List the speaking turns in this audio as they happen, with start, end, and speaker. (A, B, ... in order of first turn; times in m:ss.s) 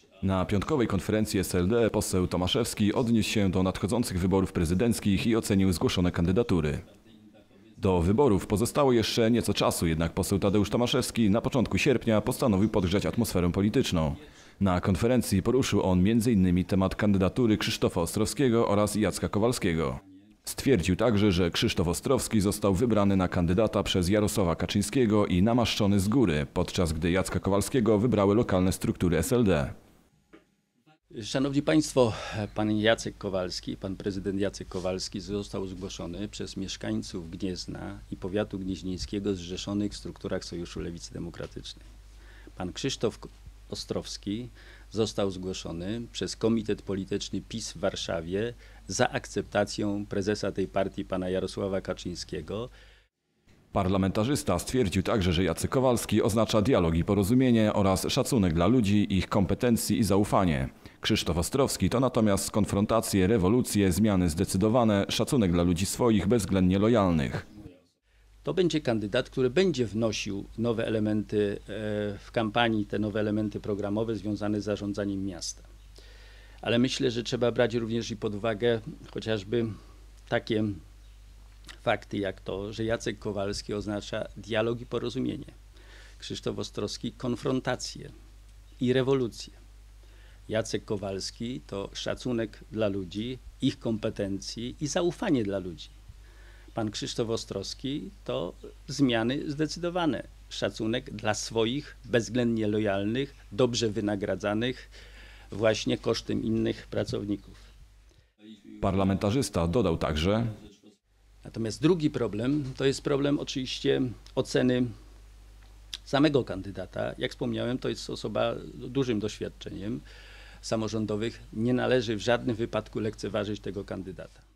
0:00.2-0:06.9 A
0:07.8-0:29.8 A
0:31.1-0:41.8 B
0:42.6-0:52.7 B
0:53.7-1:07.5 A
1:08.4-1:15.7 B
1:16.6-1:19.7 B
1:20.3-1:20.8 B
1:21.8-1:25.6 B
1:26.2-1:28.1 B
1:28.8-1:29.6 B
1:30.5-1:35.9 B
1:36.7-1:44.9 B
1:45.5-1:47.7 B
1:48.8-1:50.6 A
1:51.4-1:54.9 B
1:56.1-2:00.0 B
2:00.6-2:04.4 B